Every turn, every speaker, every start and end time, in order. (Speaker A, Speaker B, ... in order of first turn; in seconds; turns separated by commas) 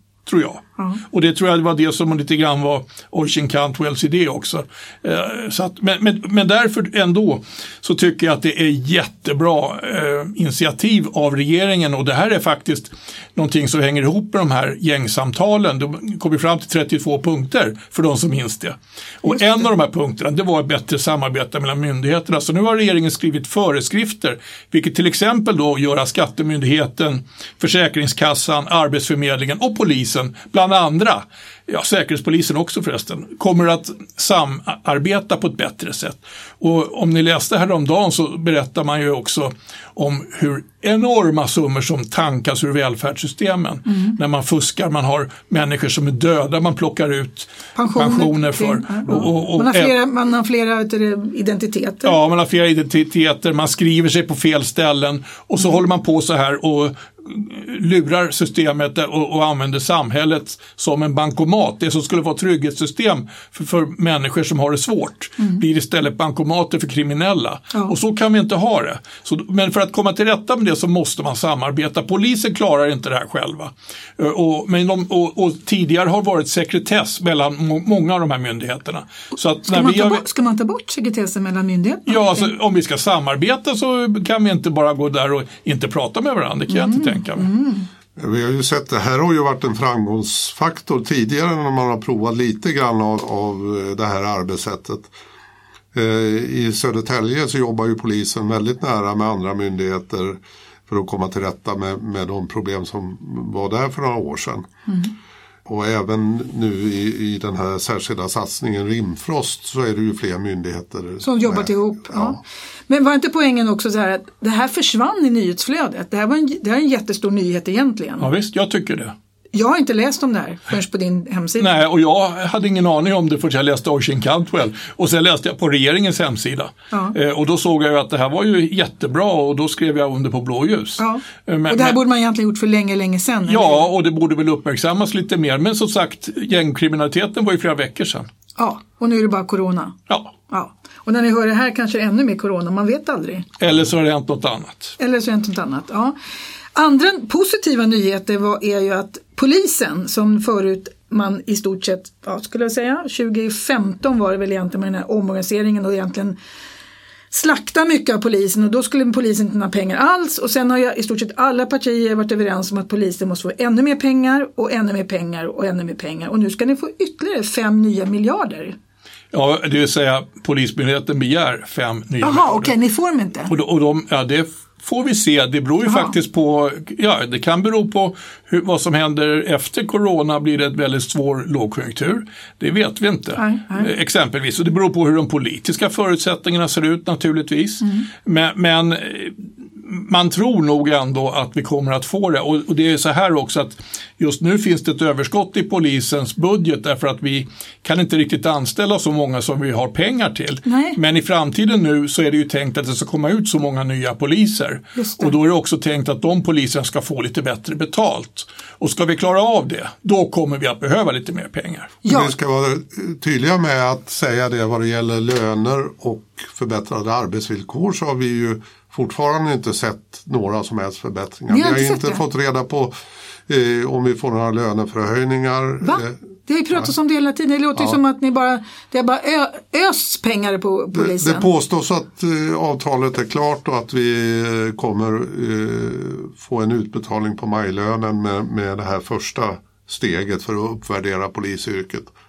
Speaker A: 0.2-49.9, Speaker B: 47.8-52.1, Speaker A: 52.0-80.2, Speaker B: 79.7-82.5, Speaker A: 82.1-87.5, Speaker B: 86.7-87.9, Speaker C: 88.2-95.1, Speaker C: 95.9-104.7, Speaker C: 105.7-112.4, Speaker B: 111.2-118.3, Speaker A: 118.2-119.1, Speaker B: 119.5-121.8, Speaker A: 121.6-132.0, Speaker B: 131.0-133.8, Speaker A: 133.5-138.3, Speaker B: 138.6-140.0, Speaker A: 140.1-140.3, Speaker B: 140.5-143.5, Speaker A: 143.6-145.0, Speaker B: 145.0-146.1, Speaker B: 146.7-156.3, Speaker B: 157.3-168.8, Speaker A: 169.3-172.7, Speaker B: 172.2-173.5, Speaker A: 173.5-211.9, Speaker B: 175.8-176.1, Speaker B: 183.4-183.9, Speaker B: 200.7-201.0, Speaker B: 204.9-205.3, Speaker B: 212.0-212.3, Speaker C: 212.1-222.9, Speaker B: 221.5-222.2, Speaker C: 223.5-226.2, Speaker B: 225.8-231.5, Speaker C: 230.9-242.1